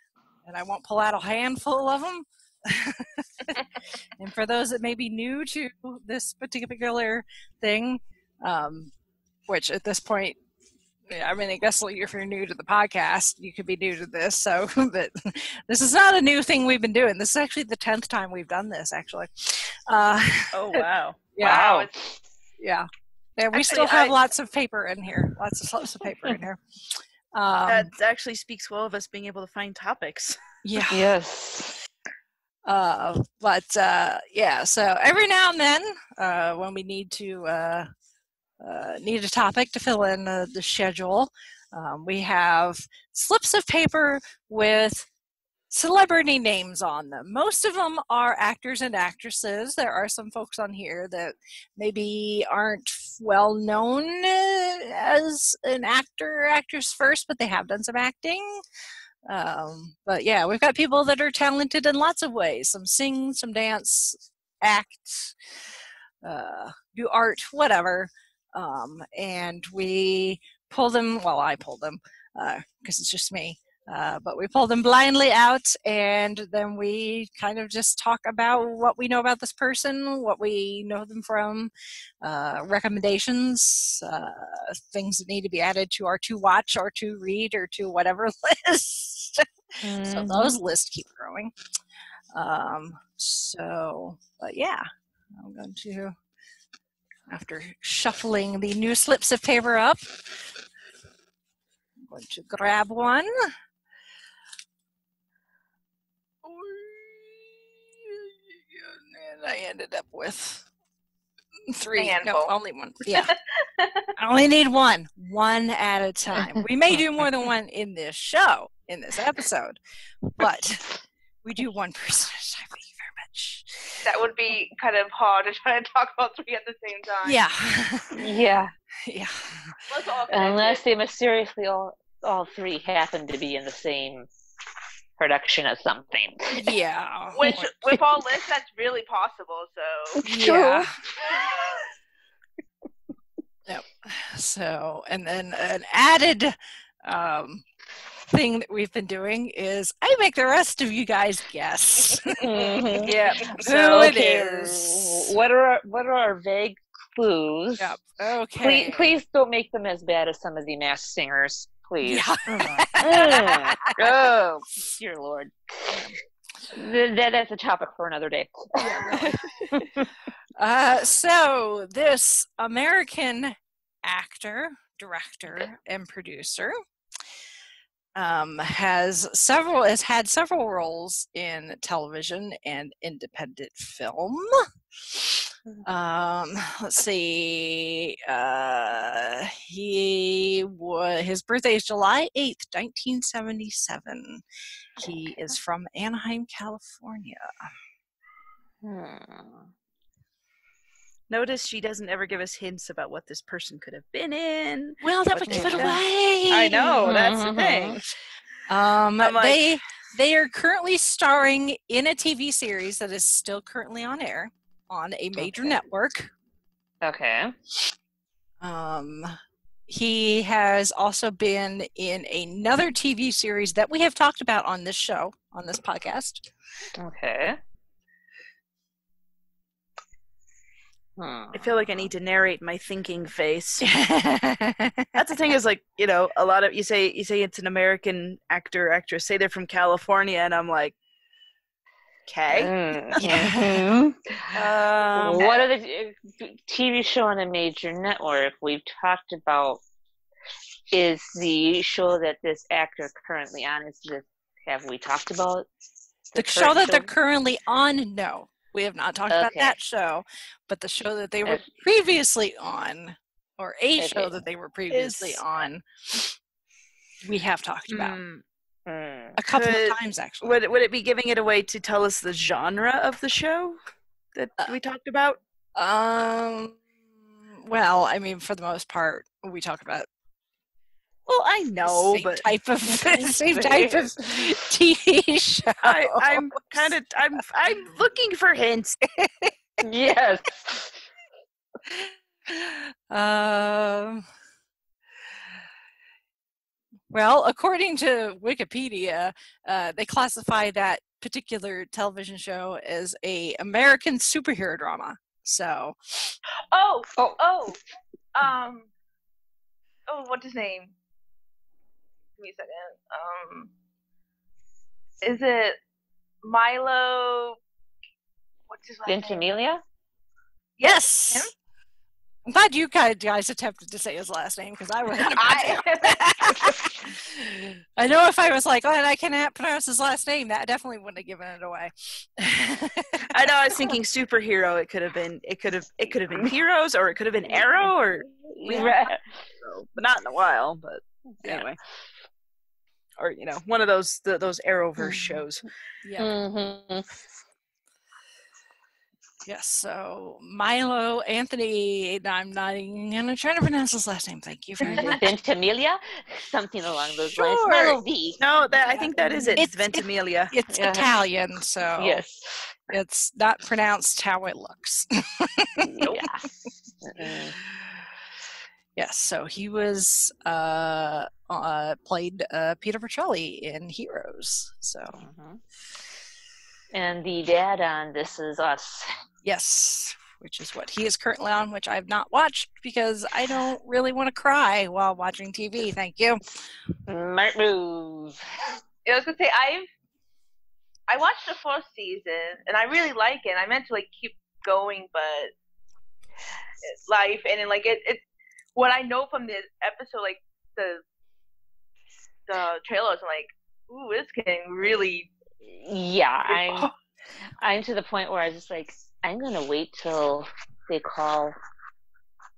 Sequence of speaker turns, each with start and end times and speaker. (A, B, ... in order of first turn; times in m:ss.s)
0:00.4-0:03.6 A
0:04.2-0:08.9 A
0:09.5-0:10.4 A
0:11.1-0:20.8 A
0:20.5-0:21.2 B
0:21.4-0:21.9 A
0:21.4-0:21.9 C
0:21.4-0:22.2 D
0:22.6-0:27.9 A
0:23.6-0:24.1 B
0:27.7-0:30.4 B
0:30.6-0:31.1 A
0:30.9-0:31.8 D
0:32.7-0:37.9 A
0:38.6-0:45.1 A
0:45.7-0:58.6 A
0:59.3-1:05.4 A
1:06.2-1:21.7 A
1:22.2-1:31.5 A
1:29.8-1:30.6 D
1:32.3-1:34.8 A
1:35.4-1:36.2 A
1:37.3-1:40.5 A
1:42.0-1:43.3 A
1:46.4-1:50.7 A
1:51.7-1:53.4 A
1:52.0-1:52.5 C
1:53.1-1:54.1 C
1:54.2-1:59.8 A
2:00.3-2:00.8 A
2:01.4-2:04.0 A
2:04.0-2:07.4 C
2:07.2-2:08.3 A
2:08.2-2:08.7 D
2:09.0-2:09.8 A
2:09.9-2:10.8 C
2:10.3-2:14.3 D
2:15.2-2:16.6 D
2:16.5-2:18.0 A
2:17.3-2:20.2 C
2:20.2-2:21.4 D
2:20.3-2:21.0 A
2:23.7-2:27.6 A
2:28.3-2:35.4 A
2:32.4-2:37.9 D
2:32.6-2:32.8 C
2:33.0-2:34.2 B
2:37.8-2:39.2 A
2:38.6-2:46.1 D
2:42.0-2:44.0 A
2:46.7-2:50.1 D
2:48.8-2:49.9 A
2:50.6-2:56.8 A
2:58.2-3:14.4 A
3:15.0-3:17.5 A
3:18.8-3:19.7 D
3:21.3-3:28.0 B
3:25.0-3:27.1 A
3:25.5-3:25.9 D
3:27.0-3:28.0 D
3:28.7-3:36.3 A
3:29.2-3:29.7 B
3:35.4-3:35.8 D
3:37.0-3:37.6 D
3:38.6-3:39.4 A
3:39.9-3:46.5 A
3:47.0-3:47.6 D
3:51.2-3:51.8 D
3:51.5-3:53.9 B
3:53.8-3:55.1 A
3:55.2-4:00.9 B
4:02.3-4:02.7 B
4:02.5-4:04.5 D
4:03.2-4:04.0 A
4:04.5-4:05.5 B
4:05.2-4:09.8 D
4:10.9-4:15.7 D
4:16.3-4:17.1 D
4:16.4-4:26.4 A
4:19.3-4:19.8 D
4:24.0-4:24.4 D
4:24.9-4:25.4 B
4:27.2-4:28.2 A
4:27.9-4:28.4 B
4:28.9-4:29.4 D
4:29.4-4:30.6 A
4:29.5-4:33.8 B
4:34.4-4:35.4 B
4:35.8-4:40.1 A
4:41.3-4:42.5 B
4:41.8-4:46.9 A
4:42.9-4:44.5 D
4:45.8-4:49.0 B
4:49.2-4:49.5 A
4:49.8-4:50.9 D
4:52.5-4:54.3 A
4:57.1-5:06.4 A
5:06.7-5:07.8 C
5:08.4-5:08.9 C
5:10.1-5:10.9 C
5:12.4-5:13.7 C
5:15.2-5:15.8 C
5:16.4-5:17.6 C
5:18.7-5:19.5 C
5:19.1-5:19.8 D
5:20.8-5:21.5 C
5:20.8-5:21.5 A
5:22.5-5:33.3 A
5:25.2-5:26.9 C
5:33.3-5:38.9 B
5:38.3-5:39.2 D
5:39.6-5:41.8 B
5:43.2-5:45.7 B
5:46.0-5:46.3 A
5:46.2-5:47.1 D
5:49.5-5:55.4 A
5:54.8-5:55.2 C
5:55.0-5:58.4 D
5:57.3-5:58.0 A
5:58.4-6:00.5 B
5:59.2-5:59.5 D
5:59.6-6:02.2 A
6:00.7-6:01.1 D
6:02.0-6:02.8 D
6:02.9-6:06.2 A
6:05.8-6:06.4 D
6:07.0-6:07.6 D
6:09.0-6:15.2 A
6:15.1-6:15.6 D
6:16.9-6:19.1 D
6:19.4-6:26.4 A
6:27.1-6:28.4 D
6:29.0-6:29.9 C
6:31.1-6:35.5 C
6:36.8-6:38.2 C
6:38.8-6:41.0 C
6:42.5-6:45.3 C
6:45.6-6:46.9 D
6:46.5-6:46.9 C
6:47.6-6:51.6 D